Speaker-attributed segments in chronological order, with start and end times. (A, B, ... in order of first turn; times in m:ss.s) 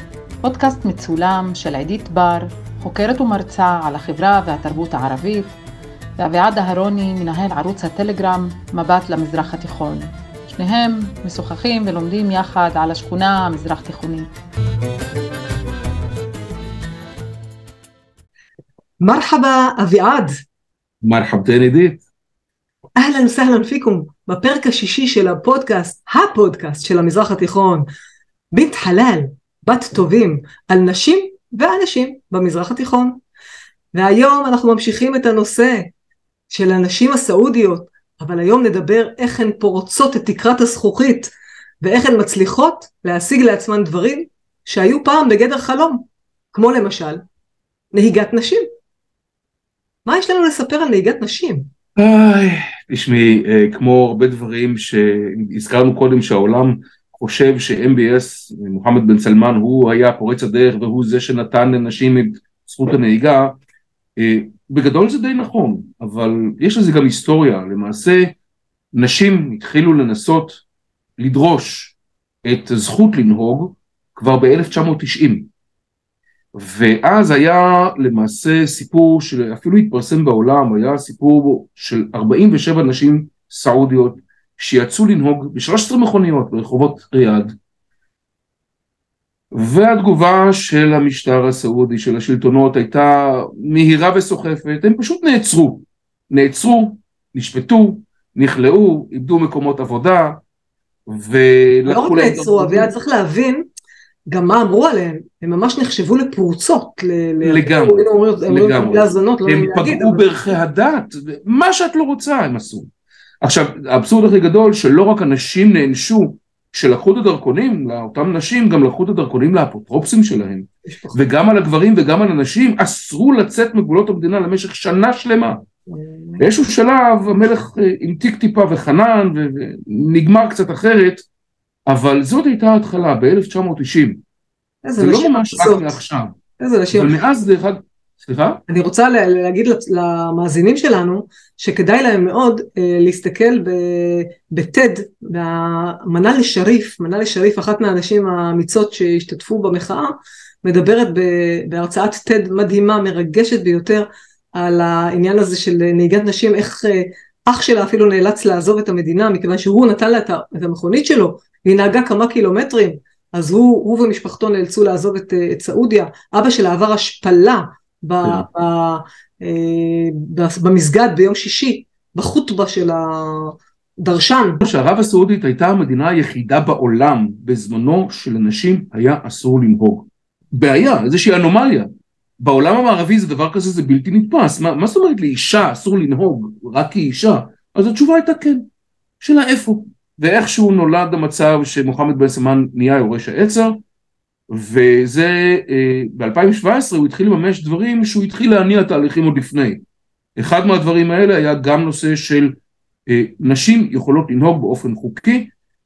0:00.4-0:05.6 A
0:06.2-0:14.3 A
0:19.0-0:20.3 B
0:21.0-0:22.0 C
0:23.0-0:27.9 B
0:28.5-0:33.2 B
0:34.0-0:35.9 B
0:36.5-0:47.2 B
0:47.9-0:48.6 B
0:50.1-0:51.7 B
0:52.0-1:03.6 C
1:04.2-1:08.4 C
1:08.9-1:10.6 C
1:11.2-1:15.5 C
1:16.5-1:27.6 C
1:29.5-1:40.4 C
1:41.1-1:42.9 C
1:41.9-1:43.7 B
1:44.3-1:50.3 B
1:47.4-1:52.9 C
1:53.4-2:05.6 C
2:00.9-2:01.2 B
2:05.9-2:06.4 B
2:06.4-2:11.3 C
2:11.9-2:14.2 C
2:14.9-2:16.0 B
2:15.0-2:16.4 C
2:16.6-2:17.1 B
2:16.9-2:18.6 C
2:18.7-2:54.7 B
2:54.6-3:08.7 C
3:09.2-3:13.8 C
3:14.5-3:19.8 C
3:20.4-3:25.5 C